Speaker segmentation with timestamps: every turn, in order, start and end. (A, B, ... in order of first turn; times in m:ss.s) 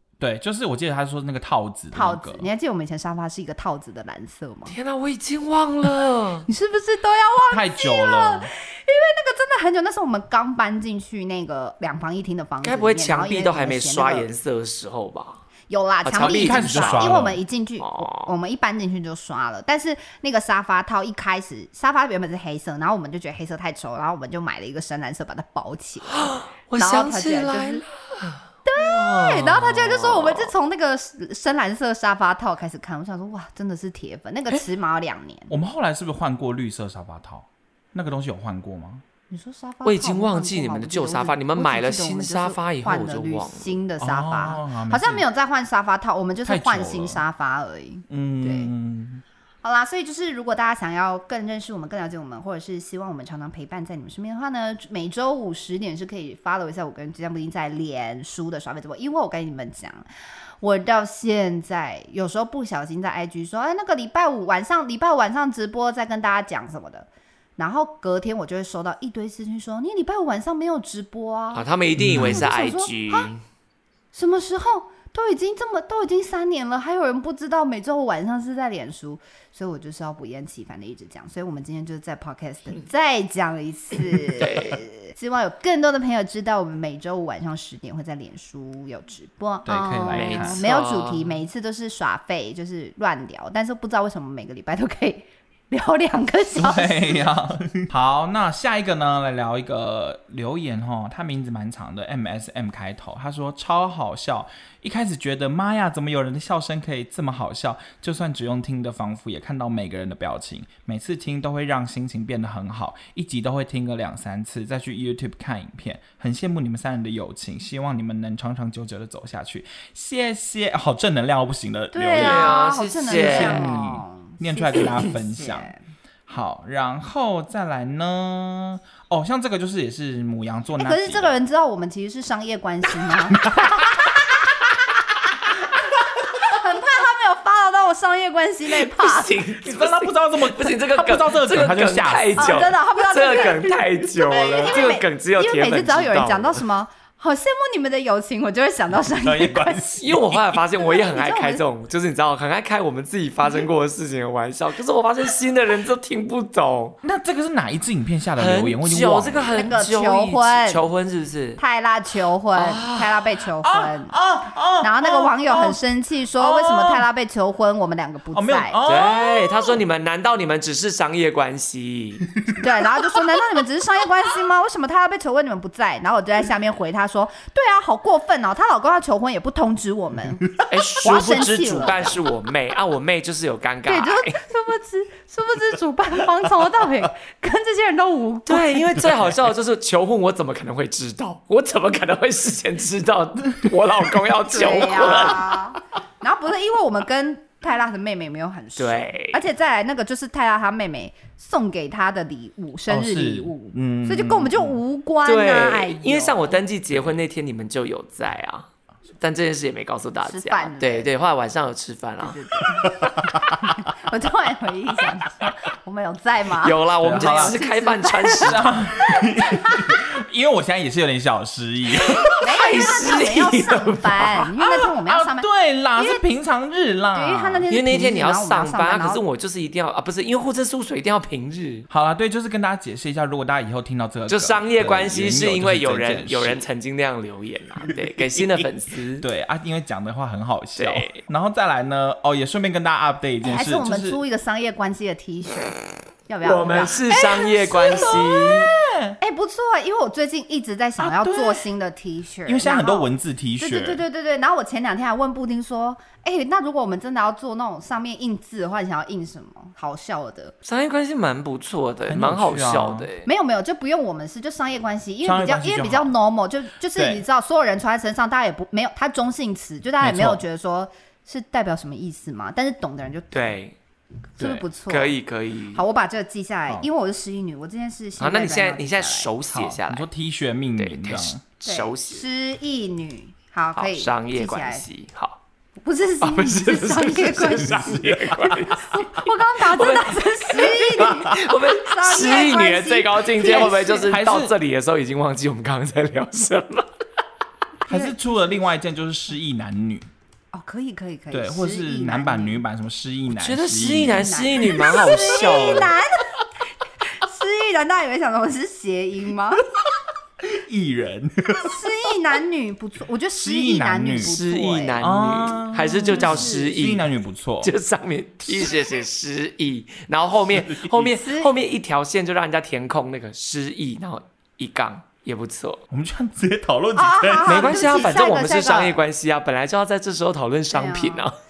0:00.2-0:02.5 A
0:01.9-0:04.7 B
0:04.7-0:06.5 C
0:06.5-0:14.3 B
0:07.5-0:08.5 A
0:12.6-0:15.4 C
0:15.7-0:27.8 B
0:16.0-0:17.2 C
0:16.2-0:17.4 A
0:17.8-0:18.3 C
0:26.0-0:30.5 C
0:28.6-0:35.5 B
0:35.5-0:39.0 A
0:39.3-0:48.7 B
0:39.8-0:43.8 C
0:44.0-0:45.2 A
0:46.4-0:47.2 A
0:48.1-0:49.2 A
0:49.6-1:00.1 B
1:00.6-1:13.3 B
1:11.5-1:13.4 C
1:12.0-1:12.4 A
1:14.1-1:37.2 B
1:24.4-1:24.8 C
1:29.6-1:30.6 A
1:30.1-1:31.4 C
1:36.5-2:05.7 A
2:01.9-2:05.8 B
2:02.1-2:03.7 C
2:06.3-2:11.3 A
2:10.8-2:14.4 B
2:15.7-2:19.4 B
2:18.7-2:26.6 C
2:19.6-2:22.6 A
2:22.4-2:29.9 B
2:29.2-2:30.2 A
2:30.0-2:37.0 C
2:30.8-2:31.6 B
2:37.0-2:39.7 A
2:38.4-2:41.6 C
2:39.5-2:40.9 B
2:41.6-2:44.1 B
2:42.5-2:43.2 C
2:43.6-2:45.8 A
2:44.8-2:48.8 B
2:46.3-2:47.1 A
2:48.3-2:49.8 A
2:48.8-2:52.3 C
2:52.6-3:00.5 B
3:00.7-3:04.3 C
3:01.0-3:02.2 B
3:03.8-3:08.9 B
3:08.4-3:15.5 C
3:14.5-3:26.6 B
3:18.8-3:19.4 C
3:22.9-3:24.8 A
3:25.2-3:28.7 C
3:26.9-3:27.2 A
3:29.2-3:32.4 C
3:30.2-3:31.1 B
3:32.2-3:40.0 B
3:32.8-3:33.5 A
3:36.6-3:38.6 C
3:37.0-3:37.6 A
3:38.4-3:42.4 A
3:42.1-3:44.5 C
3:42.4-3:46.2 B
3:44.6-3:47.7 A
3:47.1-3:49.2 B
3:47.7-3:51.8 C
3:51.9-3:56.6 A
3:54.3-3:59.2 C
3:57.9-4:04.2 A
4:00.8-4:01.2 C
4:03.4-4:05.7 B
4:06.3-4:07.0 B
4:06.4-4:08.7 C
4:07.1-4:09.2 A
4:09.2-4:20.5 B
4:11.0-4:11.6 A
4:12.4-4:14.0 A
4:20.6-4:23.3 C
4:22.1-4:23.1 A
4:23.2-4:33.6 B
4:25.2-4:26.1 A
4:26.9-4:27.2 A
4:30.0-4:30.4 A
4:33.3-4:33.8 C
4:34.4-4:35.2 B
4:34.4-4:34.7 A
4:34.9-4:35.8 C
4:35.7-4:39.3 B
4:38.2-4:40.1 C
4:39.5-4:41.4 A
4:40.8-4:42.2 C
4:41.6-4:44.8 B
4:43.7-4:45.4 C
4:45.8-4:48.1 B
4:46.2-4:56.9 C
4:47.6-4:48.8 A
4:48.7-4:54.2 B
4:53.4-4:54.5 A
4:57.8-4:58.2 B
4:57.9-5:00.1 A
5:00.5-5:02.6 B
5:01.3-5:05.0 A
5:03.3-5:05.9 C
5:04.1-5:06.3 B
5:07.2-5:09.6 B
5:10.4-5:11.8 A
5:11.6-5:15.0 B
5:13.4-5:14.4 A
5:14.2-5:17.1 C
5:15.0-5:17.7 A
5:16.0-5:16.7 B
5:17.6-5:25.8 C
5:18.5-5:18.9 A
5:20.5-5:21.1 A
5:21.1-5:21.5 B
5:25.9-5:28.0 A
5:26.9-5:29.0 B
5:27.4-5:31.3 C
5:30.7-5:31.2 B